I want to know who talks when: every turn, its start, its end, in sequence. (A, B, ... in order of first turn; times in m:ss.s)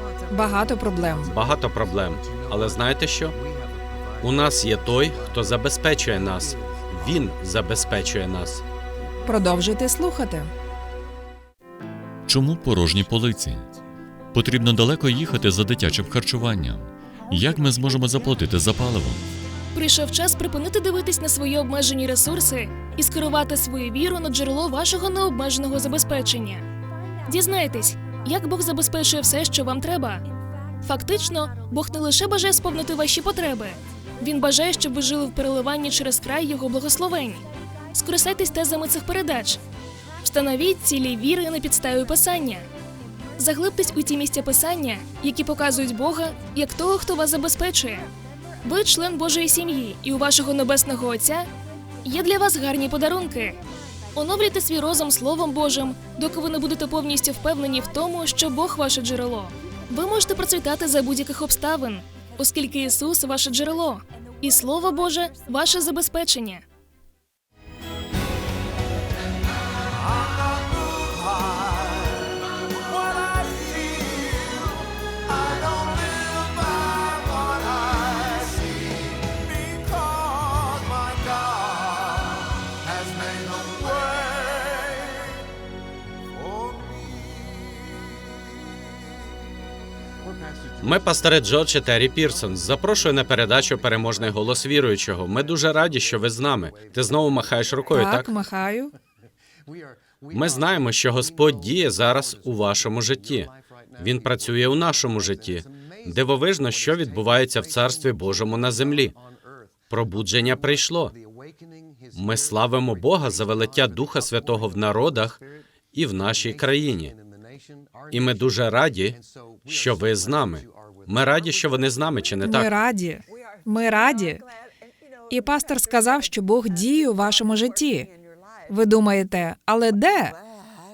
0:00.3-0:01.3 A
0:01.3-0:03.4 B
0:04.2-0:08.6 B
0:09.2-0:10.5 A
0:12.3-0:13.7 C
0:14.3-0:19.3 C
0:19.7-0:26.6 D
0:27.2-0:30.2 D
0:30.8-0:39.6 D
0:40.2-0:42.6 D
0:43.4-0:48.1 D
0:48.6-0:51.5 D
0:52.0-0:53.6 D
0:54.1-1:06.6 D
1:30.8-1:38.3 B
1:37.9-1:38.9 A
1:40.3-1:49.1 B
1:49.9-1:51.1 B
1:52.1-1:55.4 B
1:55.9-1:57.1 B
1:58.1-2:02.7 B
2:02.4-2:04.4 A
2:05.3-2:08.1 A
2:08.7-2:10.4 A